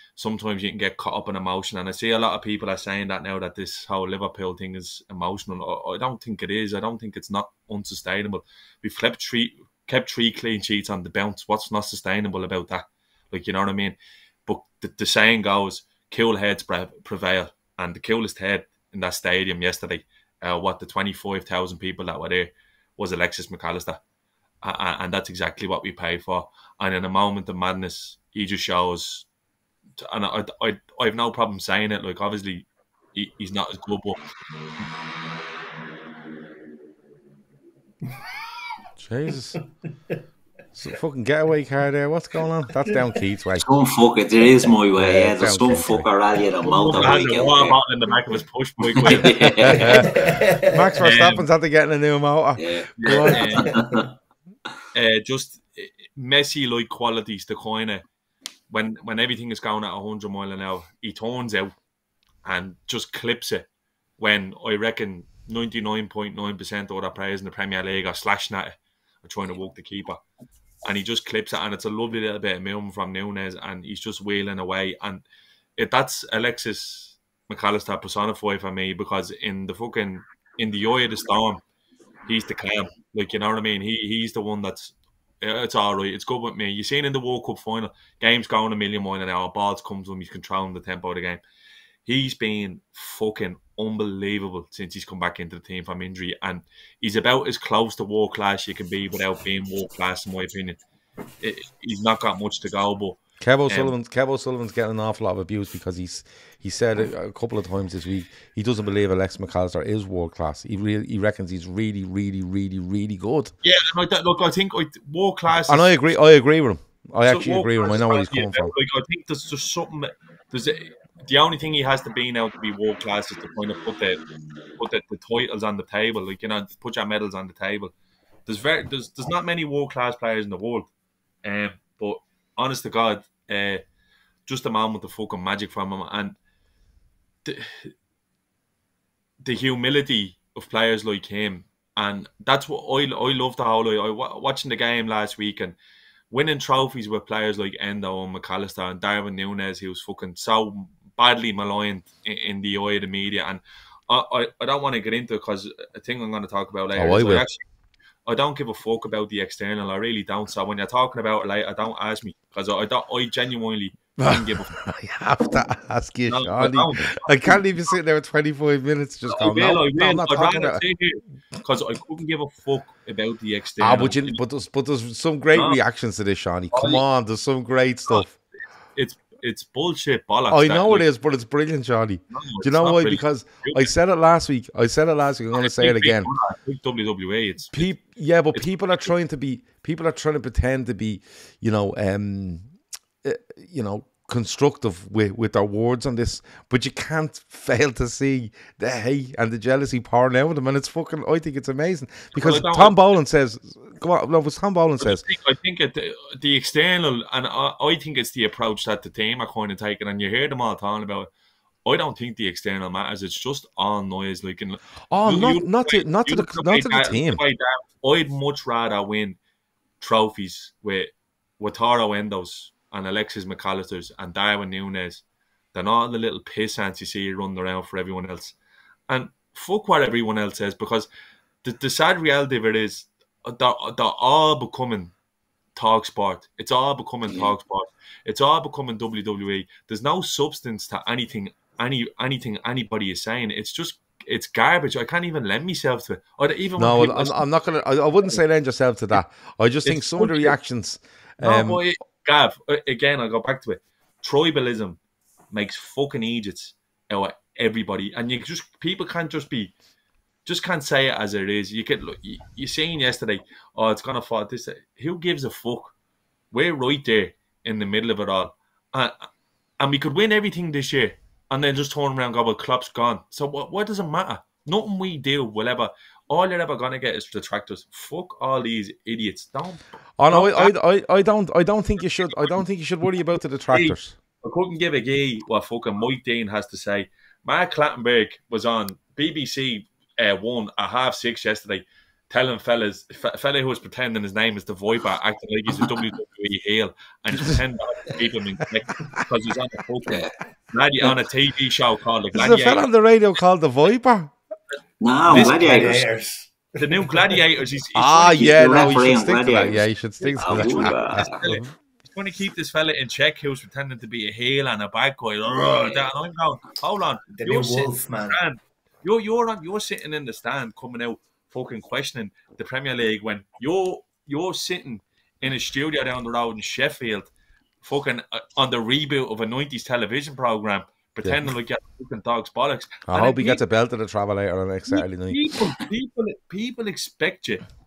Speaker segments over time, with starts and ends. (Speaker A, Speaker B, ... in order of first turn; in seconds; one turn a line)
Speaker A: 0.2-24.0
Speaker A: 24.6-29.3
Speaker A: 30.0-34.2
Speaker B: 39.0-39.6
Speaker B: 40.8-43.7
Speaker C: 43.6-47.8
Speaker B: 45.0-46.1
Speaker A: 46.7-50.0
Speaker C: 48.9-50.0
Speaker B: 49.6-53.7
Speaker D: 49.8-50.9
Speaker A: 51.0-51.5
Speaker C: 52.6-54.1
Speaker A: 53.0-53.8
Speaker D: 53.6-54.0
Speaker A: 54.9-58.0
Speaker A: 58.7-61.7
Speaker A: 62.5-63.7
Speaker A: 64.2-70.2
Speaker A: 70.8-75.2
Speaker A: 75.8-81.6
Speaker A: 82.3-91.4
Speaker A: 92.0-100.8
Speaker A: 101.4-103.9
Speaker B: 103.4-113.5
Speaker A: 113.6-115.9
Speaker B: 115.7-118.7
Speaker A: 117.3-124.2
Speaker A: 124.8-127.9
Speaker A: 128.5-130.9
Speaker A: 131.4-133.8
Speaker A: 134.5-136.4
Speaker A: 137.4-137.9
Speaker A: 139.4-145.8
Speaker A: 146.3-157.6
Speaker B: 156.9-157.5
Speaker A: 158.3-164.8
Speaker B: 164.2-170.8
Speaker A: 166.3-167.6
Speaker A: 169.3-174.4
Speaker B: 173.8-178.3
Speaker A: 176.7-177.0
Speaker A: 178.9-181.1
Speaker B: 180.5-186.3
Speaker A: 182.3-183.9
Speaker A: 185.6-187.9
Speaker B: 187.7-192.7
Speaker A: 188.5-189.0
Speaker B: 193.2-205.2
Speaker A: 202.3-203.0
Speaker A: 205.0-211.3
Speaker A: 211.8-219.4
Speaker B: 215.1-217.4
Speaker A: 220.0-225.2
Speaker A: 225.7-228.6
Speaker A: 229.1-231.1
Speaker A: 231.6-235.1
Speaker A: 235.8-247.5
Speaker C: 237.3-237.6
Speaker B: 246.8-251.8
Speaker A: 249.8-250.6
Speaker A: 251.4-255.0
Speaker A: 255.5-259.7
Speaker A: 260.5-265.9
Speaker A: 266.5-269.3
Speaker A: 269.8-280.7
Speaker B: 280.2-284.2
Speaker A: 283.7-302.9
Speaker C: 300.1-300.3
Speaker B: 302.3-304.3
Speaker C: 305.0-306.1
Speaker A: 305.3-306.0
Speaker D: 305.4-307.4
Speaker A: 306.8-309.1
Speaker B: 308.0-311.7
Speaker C: 308.4-311.6
Speaker A: 310.2-327.3
Speaker C: 315.6-316.1
Speaker D: 317.3-318.4
Speaker A: 327.8-333.6
Speaker B: 331.2-331.5
Speaker B: 333.1-335.5
Speaker A: 334.9-337.6